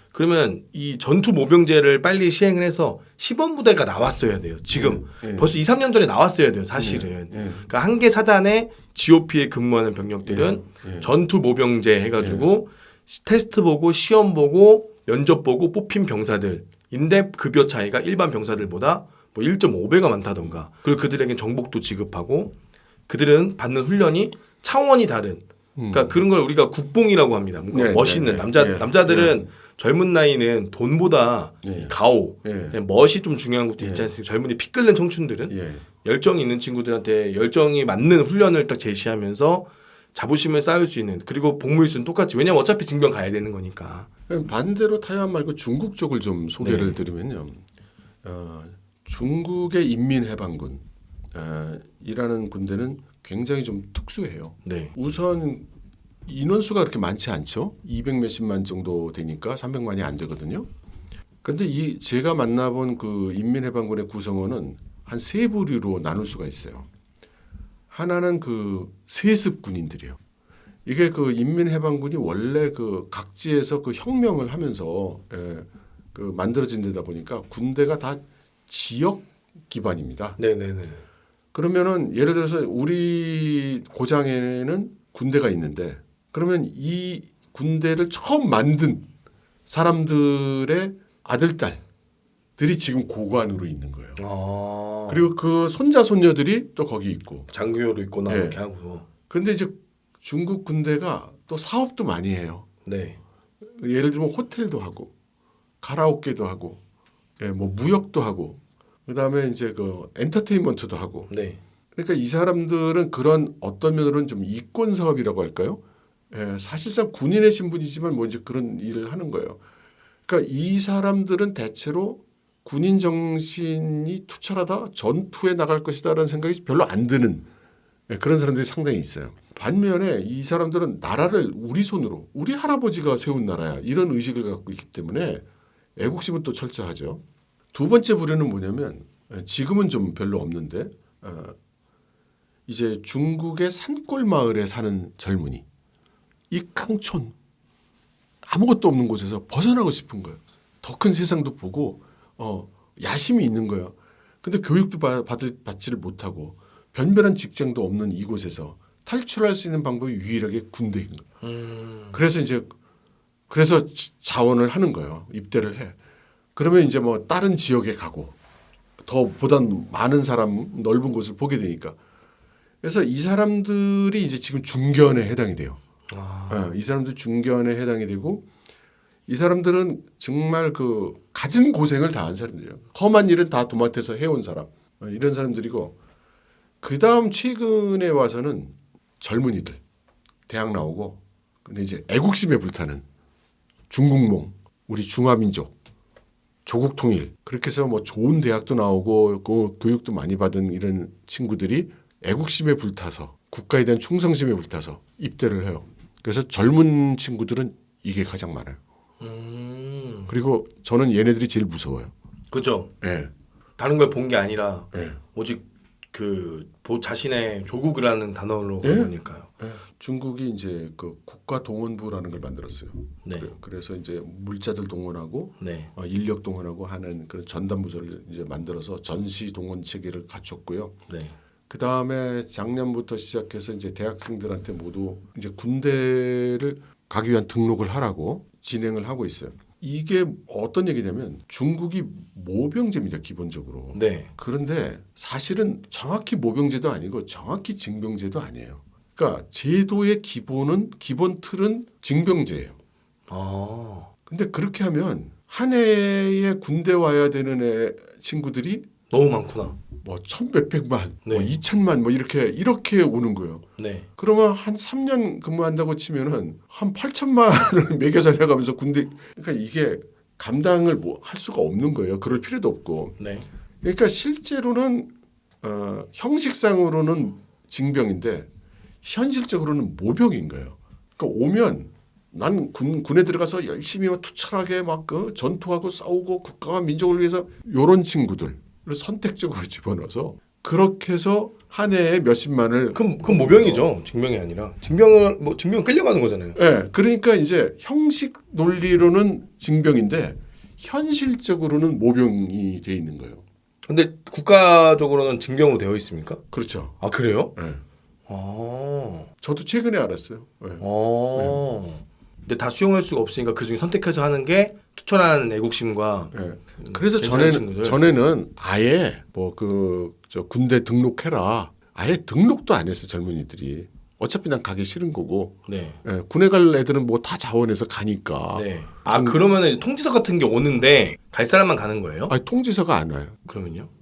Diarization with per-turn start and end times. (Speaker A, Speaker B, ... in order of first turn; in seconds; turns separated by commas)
Speaker A: 0.1-22.6, Speaker B: 4.7-5.5, Speaker B: 6.8-7.7, Speaker B: 10.3-11.1, Speaker B: 12.2-12.4, Speaker A: 23.1-44.1, Speaker B: 25.8-26.2, Speaker B: 27.7-29.4, Speaker B: 31.6-31.9, Speaker B: 32.4-32.8, Speaker B: 33.8-34.1, Speaker B: 35.5-35.9, Speaker B: 44.3-47.6, Speaker A: 46.6-47.0, Speaker B: 48.2-55.7, Speaker A: 54.6-54.9, Speaker B: 56.3-60.7, Speaker B: 61.4-66.9, Speaker B: 67.9-70.2, Speaker B: 70.8-80.4, Speaker A: 80.4-81.0, Speaker B: 81.5-89.1, Speaker B: 89.7-91.8, Speaker B: 92.6-94.2, Speaker A: 94.2-95.3, Speaker B: 95.1-97.5, Speaker A: 97.5-99.1, Speaker B: 98.3-98.6, Speaker B: 99.3-102.7, Speaker A: 102.8-103.2, Speaker B: 103.6-105.1, Speaker B: 105.8-106.8, Speaker B: 107.4-111.3, Speaker A: 111.3-111.6, Speaker B: 112.0-119.6, Speaker B: 120.3-127.5, Speaker B: 128.1-135.5, Speaker B: 136.0-137.2, Speaker B: 137.7-141.6, Speaker B: 142.7-145.7, Speaker B: 146.5-147.3, Speaker B: 148.4-161.3, Speaker A: 161.4-162.2, Speaker B: 162.1-162.7, Speaker B: 163.5-166.0, Speaker B: 166.6-168.3, Speaker B: 169.0-172.0, Speaker B: 172.8-175.8, Speaker A: 176.1-176.7, Speaker B: 176.5-178.5, Speaker B: 179.3-186.0, Speaker B: 186.8-189.8, Speaker B: 190.5-193.0, Speaker B: 193.9-195.7, Speaker B: 196.7-208.8, Speaker A: 209.2-210.3, Speaker B: 210.3-212.1, Speaker A: 212.5-212.9, Speaker B: 213.0-213.3, Speaker A: 213.8-219.5, Speaker B: 214.9-215.2, Speaker B: 218.8-231.0, Speaker A: 223.2-223.5, Speaker A: 225.6-225.9, Speaker A: 231.1-231.4, Speaker B: 231.7-252.8, Speaker A: 243.9-244.3, Speaker A: 253.3-254.1, Speaker B: 254.3-258.9, Speaker A: 259.1-259.8, Speaker B: 260.0-263.6, Speaker A: 261.2-261.6, Speaker A: 263.8-264.1, Speaker B: 264.2-273.2, Speaker A: 273.2-273.5, Speaker B: 273.8-278.5, Speaker B: 279.0-293.9, Speaker A: 292.9-296.6, Speaker B: 296.6-303.4, Speaker A: 303.9-306.4, Speaker B: 306.5-307.0, Speaker A: 307.0-307.5, Speaker B: 307.6-307.8, Speaker A: 308.3-309.3, Speaker B: 309.4-310.8, Speaker A: 310.8-318.0, Speaker B: 311.4-311.6, Speaker B: 316.3-329.4, Speaker A: 325.7-326.0, Speaker A: 328.6-332.4, Speaker B: 332.3-333.4, Speaker A: 333.5-333.9